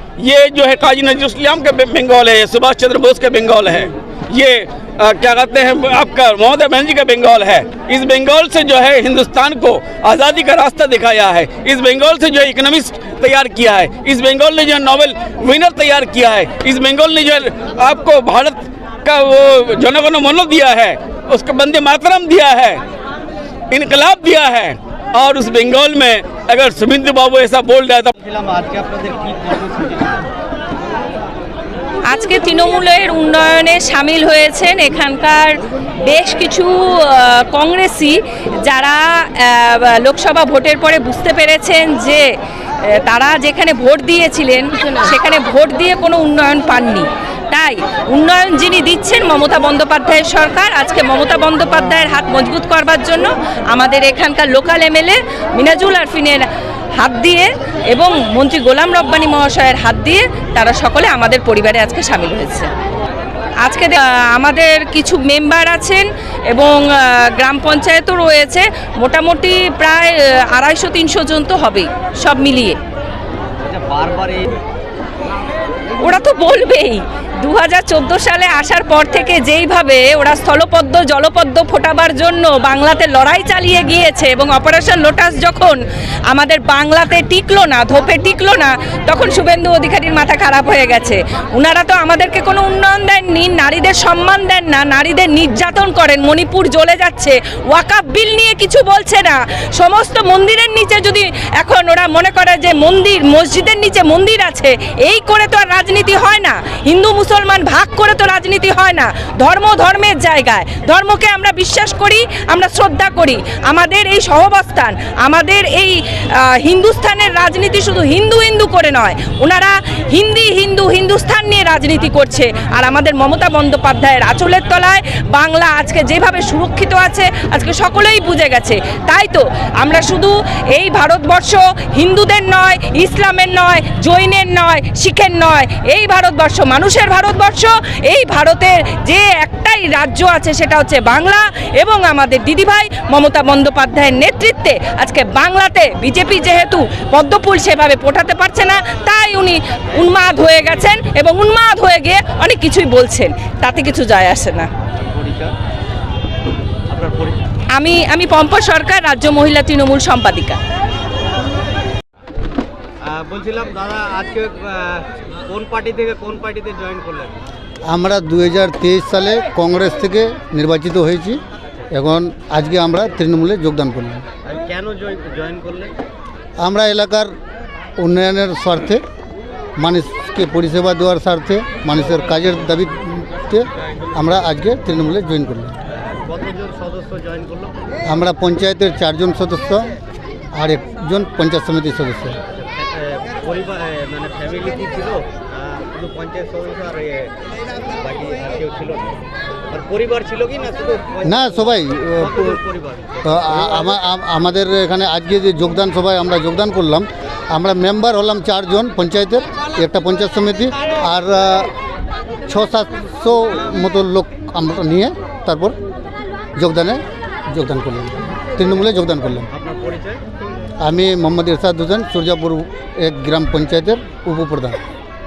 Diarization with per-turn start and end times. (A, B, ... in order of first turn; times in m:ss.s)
0:00.2-0:22.8 A
0:23.7-0:28.1 A
0:28.1-0:30.2 B
0:32.1-0:42.2 C
0:43.0-0:56.4 C
0:57.0-1:02.7 C
1:03.6-1:12.8 C
1:13.6-1:14.6 B
1:16.0-1:25.8 C
1:26.3-2:34.7 C
2:34.9-2:35.5 B
2:36.9-2:37.4 B
2:37.7-2:40.6 C
2:43.0-2:47.4 B
2:47.9-2:54.2 D
2:54.4-2:55.9 B
2:56.6-2:57.3 D
2:58.0-2:59.0 D
2:59.8-3:05.7 D
3:06.2-3:07.7 B
3:08.1-3:09.9 D
3:10.5-3:12.4 D
3:12.5-3:17.4 B
3:18.0-3:19.2 B
3:19.7-3:23.8 B
3:21.2-3:22.6 D
3:23.2-3:31.7 D
3:32.5-3:35.7 D
3:36.6-3:39.5 D
3:39.5-3:40.2 B
3:40.8-3:44.8 D